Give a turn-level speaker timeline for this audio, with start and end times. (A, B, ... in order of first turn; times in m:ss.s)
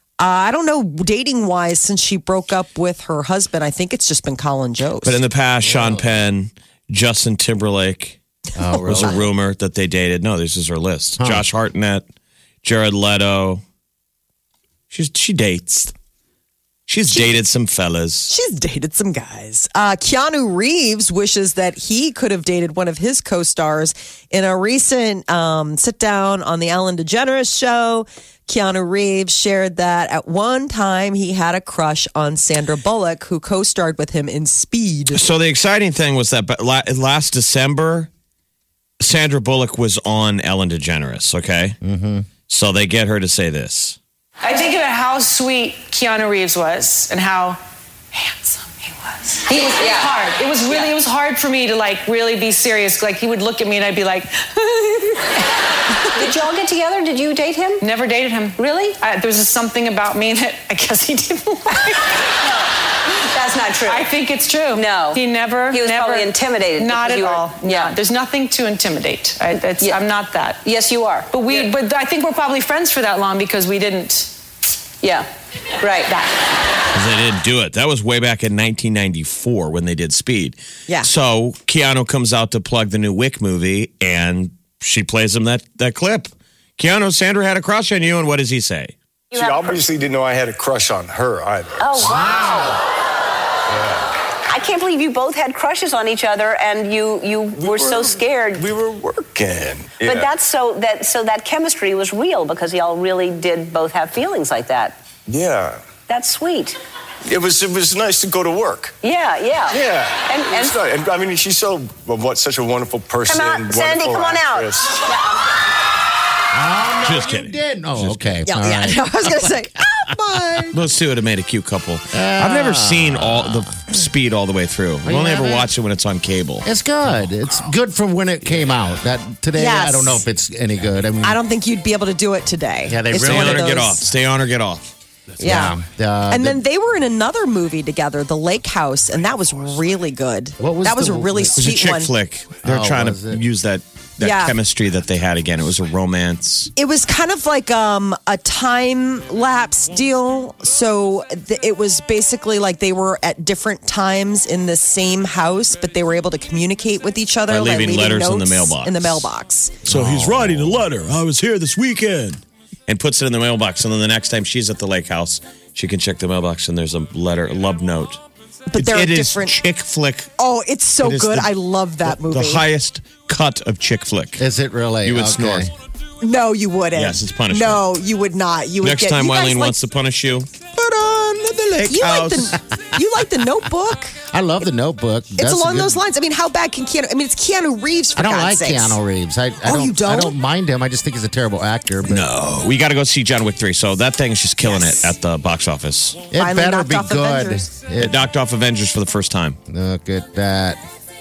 0:00.2-0:05.2 A
0:05.0-0:08.2 B
0:05.6-0:06.2 C
0:08.6-0:09.3 C
0:08.7-0:09.2 A
0:08.8-0:12.0 B
0:11.2-0:11.4 C
0:12.6-0:13.6 B
0:14.9-0:15.9 B
0:16.9-0:18.3 B
0:17.1-0:17.4 A
0:18.3-0:35.2 A
0:35.1-0:38.1 B
0:39.0-0:41.8 B
0:41.8-0:42.3 C
0:42.5-0:44.0 B
0:44.4-0:47.6 D
0:48.1-0:55.4 D
0:49.5-0:50.1 E
0:56.0-0:56.4 D
0:56.1-0:57.8 E
0:57.8-1:02.3 D
0:58.6-0:58.9 E
1:03.3-1:04.1 E
1:03.8-1:10.6 D
1:04.7-1:08.0 E
1:10.6-1:11.6 E
1:11.3-1:14.3 D
1:15.0-1:15.3 E
1:15.8-1:16.3 E
1:16.9-1:28.9 B
1:29.3-1:32.8 F
1:29.3-1:29.8 E
1:31.8-1:32.8 E
1:33.7-1:34.1 F
1:34.5-1:38.7 E
1:37.6-1:40.3 F
1:40.0-1:45.0 E
1:45.3-1:45.8 F
1:46.1-1:46.8 E
1:47.2-1:49.0 F
1:49.0-1:50.8 E
1:49.7-1:55.1 F
1:53.3-1:54.7 E
1:56.5-1:59.6 C
1:57.0-1:58.4 B
1:58.5-2:00.7 A
2:00.7-2:06.6 B
2:02.1-2:03.6 C
2:05.0-2:05.7 C
2:06.6-2:11.4 C
2:09.6-2:10.2 A
2:11.2-2:14.0 A
2:12.8-2:13.8 C
2:13.1-2:14.9 B
2:15.4-2:16.6 C
2:15.4-2:15.7 A
2:16.3-2:22.1 A
2:20.6-2:21.6 C
2:21.6-2:26.7 B
2:22.6-2:23.4 C
2:24.2-2:24.5 A
2:26.8-2:39.8 A
2:37.5-2:39.3 B
2:39.8-2:48.2 B
2:39.8-2:40.8 C
2:48.7-2:49.6 A
2:48.8-2:50.3 B
2:50.4-2:52.6 A
2:51.0-2:51.5 B
2:52.0-2:54.4 B
2:54.4-2:55.7 C
2:55.0-2:55.7 B
2:56.2-2:59.8 A
2:56.9-2:57.8 B
2:58.8-3:02.6 B
3:01.9-3:04.2 A
3:04.3-3:06.0 C
3:05.4-3:09.0 A
3:08.2-3:12.3 C
3:09.6-3:10.3 A
3:12.1-3:16.2 B
3:14.6-3:15.1 A
3:16.3-3:18.3 C
3:16.4-3:17.6 A
3:18.0-3:19.6 B
3:19.7-3:20.8 C